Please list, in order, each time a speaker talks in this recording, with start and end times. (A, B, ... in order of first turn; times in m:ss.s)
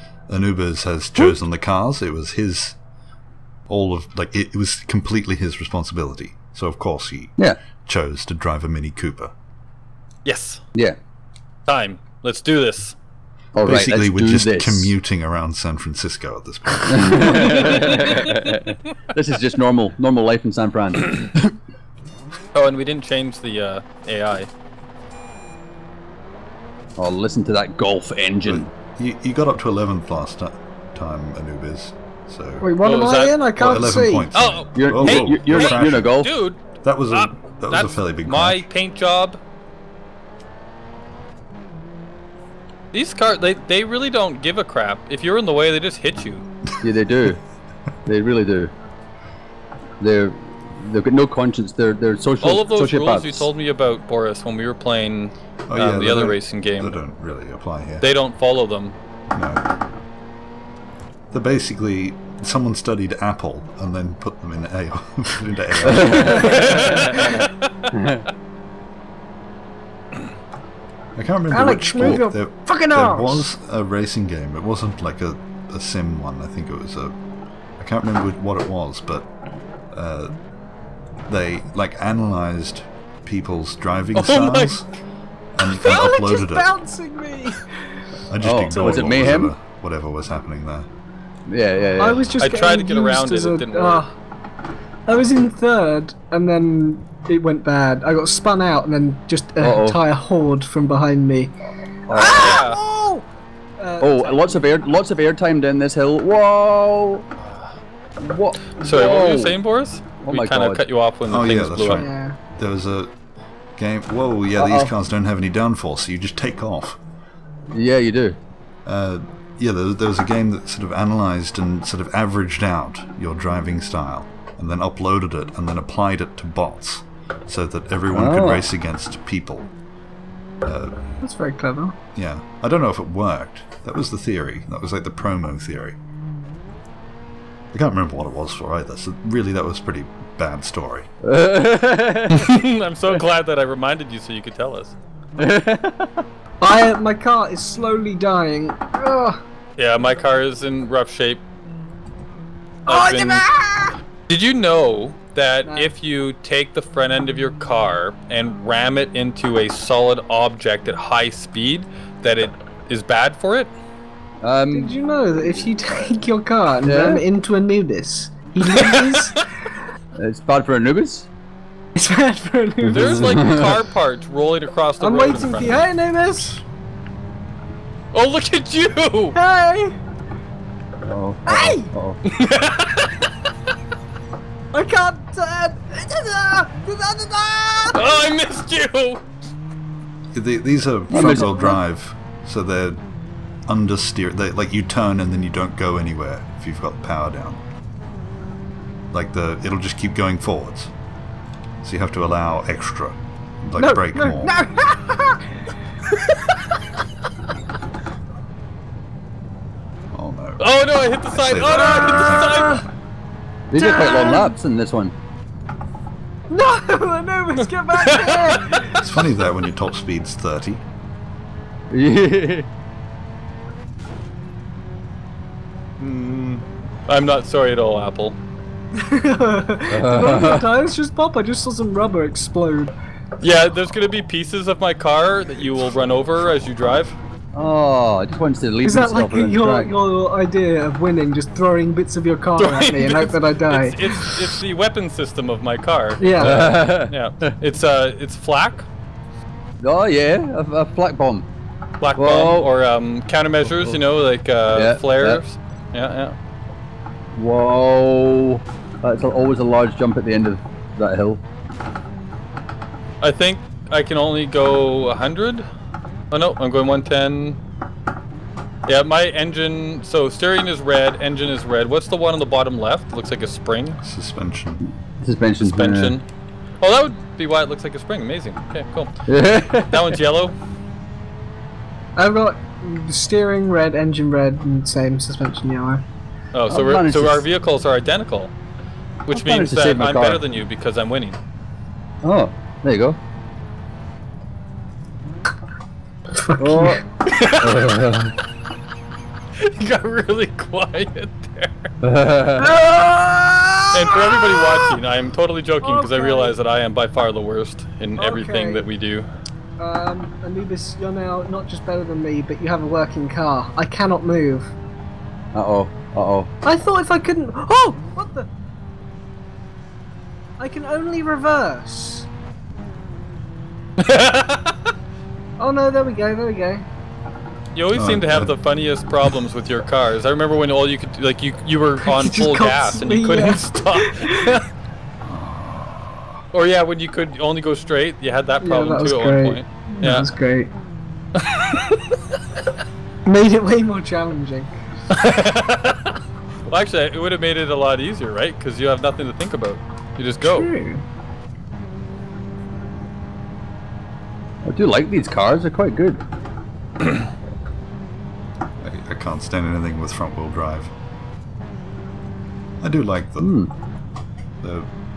0:00.3-0:02.8 A
0:03.7-0:09.3 A
0:10.2-0:10.6 B
0:11.7-0:12.9 B
0:13.5-0:14.9 C
0:13.6-0:17.8 A
0:16.8-0:21.5 C
0:17.4-0:18.6 B
0:22.5-0:24.5 B
0:27.0-0:28.7 C
0:28.4-0:32.7 A
0:32.6-0:34.3 D
0:32.8-0:39.4 B
0:33.6-0:36.1 A
0:34.7-0:36.3 C
0:36.8-0:38.6 A
0:42.9-0:46.4 B
0:46.8-0:47.4 C
0:48.0-0:48.7 C
0:50.0-0:53.5 C
0:52.4-0:57.0 B
0:55.7-0:58.1 A
0:58.0-0:59.0 B
0:59.3-0:59.6 A
1:01.3-1:06.9 A
1:05.8-1:07.4 C
1:06.3-1:07.9 B
1:06.6-1:07.4 D
1:07.9-1:08.2 C
1:11.2-1:17.2 A
1:11.5-1:13.5 D
1:17.8-1:19.3 A
1:19.9-1:20.3 A
1:21.3-1:24.8 A
1:24.1-1:24.8 B
1:25.5-1:26.7 A
1:25.7-1:27.7 D
1:28.3-1:30.9 A
1:28.4-1:29.5 C
1:28.8-1:29.1 D
1:31.5-1:32.2 C
1:32.0-1:34.2 D
1:32.4-1:34.0 B
1:35.1-1:41.6 D
1:39.6-1:40.0 C
1:42.1-1:42.6 C
1:42.1-1:43.2 D
1:42.1-1:42.8 B
1:43.8-1:44.8 D
1:44.0-1:47.2 C
1:48.2-1:49.6 C
1:48.8-1:52.1 B
1:50.2-1:50.8 C
1:51.3-1:53.1 A
1:51.9-1:52.4 D
1:53.8-1:57.0 A
1:54.6-1:54.9 C
1:57.7-1:58.4 C
1:58.8-2:09.7 A
2:08.1-2:08.6 C
2:10.6-2:11.0 A
2:11.2-2:12.0 D
2:12.1-2:16.0 A
2:17.7-2:21.1 A
2:21.2-2:22.5 C
2:22.3-2:25.0 B
2:25.4-2:26.2 C
2:26.6-2:29.4 D
2:29.8-2:31.4 B
2:32.9-2:33.4 B
2:32.9-2:33.9 D
2:34.3-2:43.7 B
2:35.6-2:35.9 D
2:44.4-2:44.9 C
2:44.7-2:49.4 D
2:46.8-2:47.2 C
2:48.8-2:49.3 B
2:50.2-2:51.3 C
2:51.9-2:53.6 D
2:52.9-2:53.8 C
2:52.9-2:55.9 B
2:55.0-2:56.6 D
2:58.1-2:59.4 B
2:59.3-2:59.9 D
3:01.0-3:02.2 C
3:01.4-3:01.9 D
3:02.2-3:03.3 B
3:04.7-3:08.2 D
3:07.9-3:09.2 B
3:10.3-3:13.0 A
3:11.1-3:11.8 C
3:11.2-3:11.5 D
3:13.7-3:17.6 A
3:19.1-3:20.9 A
3:21.8-3:24.6 A
3:23.8-3:25.4 D
3:30.1-3:30.6 A
3:30.6-3:32.8 B
3:31.3-3:32.9 A
3:32.4-3:32.8 D
3:33.7-3:35.1 C
3:33.7-3:34.5 D
3:36.5-3:39.0 D
3:37.9-3:39.0 B
3:39.0-3:40.8 A
3:41.9-3:42.7 C
3:47.1-3:48.4 B
3:48.9-3:52.9 D
3:49.9-3:50.7 C
3:53.4-3:57.1 B
3:57.5-3:59.9 C
3:58.8-4:04.5 D
4:02.6-4:08.9 B
4:06.2-4:06.6 D
4:06.4-4:07.5 C
4:09.8-4:11.4 C
4:12.0-4:16.3 B
4:12.2-4:12.7 C
4:13.7-4:14.0 C
4:14.7-4:15.4 C
4:17.3-4:21.4 C
4:23.2-4:25.6 B
4:26.3-4:27.6 B
4:28.9-4:34.0 B
4:34.0-4:34.8 A
4:35.2-4:36.2 C
4:35.6-4:36.2 B
4:36.8-4:39.1 B
4:39.3-4:40.2 C
4:39.8-4:40.6 B
4:42.2-4:46.0 D
4:46.5-4:48.5 B
4:46.7-4:47.4 C
4:49.3-4:51.4 B
4:49.3-4:50.4 C
4:52.2-4:53.2 C
4:56.4-4:57.0 D
4:56.6-4:57.0 C
4:57.3-4:58.3 B
4:57.6-4:58.3 C
4:59.6-5:01.9 B
5:02.0-5:02.7 C
5:02.6-5:05.0 D
5:03.9-5:09.3 B
5:05.8-5:06.5 D
5:08.2-5:08.8 D
5:09.8-5:14.7 D
5:15.5-5:16.5 C
5:16.6-5:18.5 D
5:20.6-5:22.3 D
5:24.0-5:24.9 B
5:25.6-5:26.8 D
5:27.7-5:34.6 B
5:27.9-5:28.5 A
5:32.0-5:34.6 D
5:35.2-5:36.0 A
5:36.5-5:40.3 B
5:38.6-5:40.7 D
5:41.4-5:42.0 B
5:43.2-5:44.8 D
5:45.1-5:50.7 B
5:50.4-5:51.0 D
5:54.6-5:56.2 C
5:58.8-6:00.9 A
6:02.8-6:03.6 A
6:03.4-6:03.7 C
6:04.6-6:04.9 A